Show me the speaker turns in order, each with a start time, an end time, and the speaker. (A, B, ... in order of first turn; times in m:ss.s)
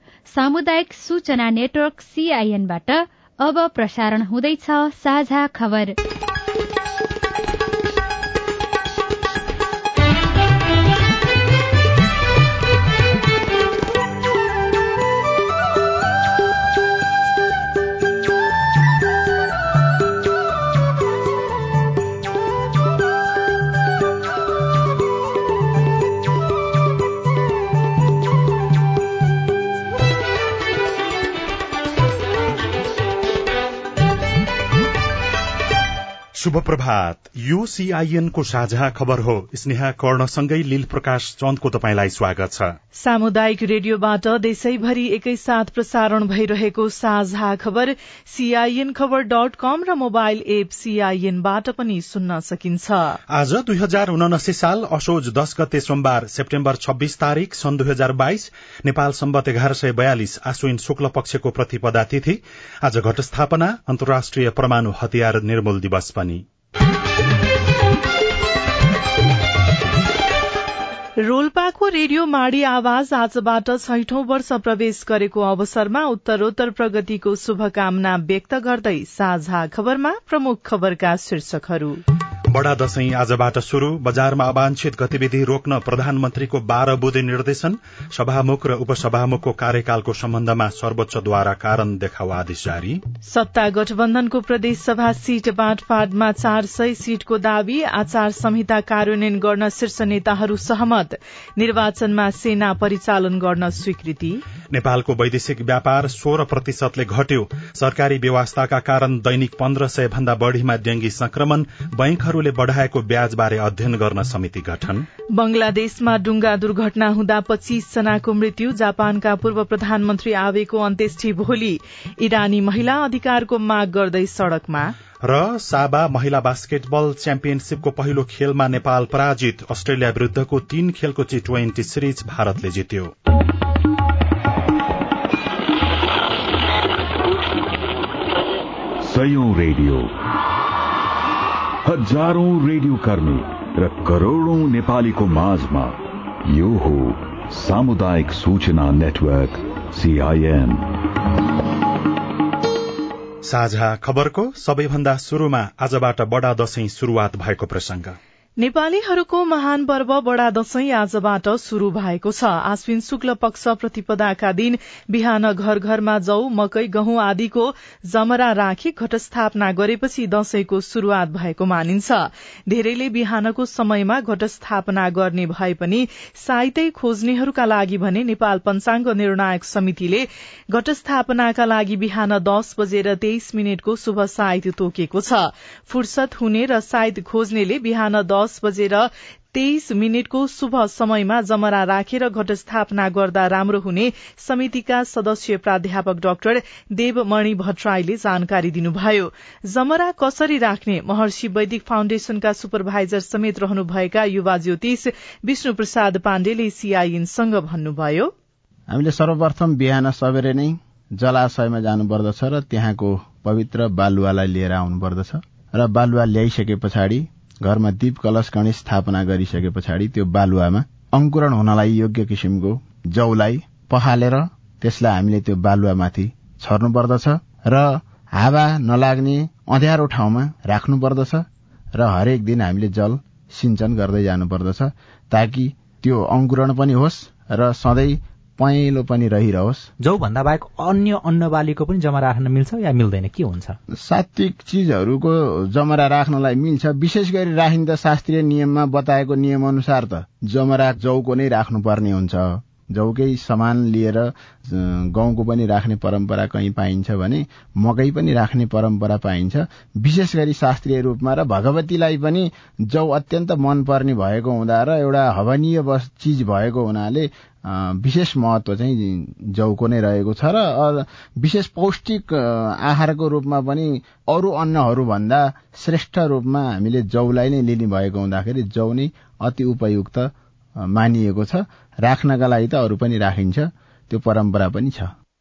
0:00.3-0:06.0 A
0:36.4-0:42.7 B
0:43.0-0:53.2 C
0:53.3-1:06.4 B
1:11.2-1:22.0 C
1:22.5-1:33.0 B
1:33.3-1:44.4 C
1:44.7-1:55.1 B
1:55.3-2:04.9 C
2:05.2-2:13.1 B
2:19.0-2:20.1 D
2:21.8-2:30.8 D
2:33.4-2:38.2 B
2:38.6-3:28.3 C
3:28.9-3:51.4 E
3:52.0-3:59.9 E
4:00.0-4:03.8 F
4:03.9-4:45.1 E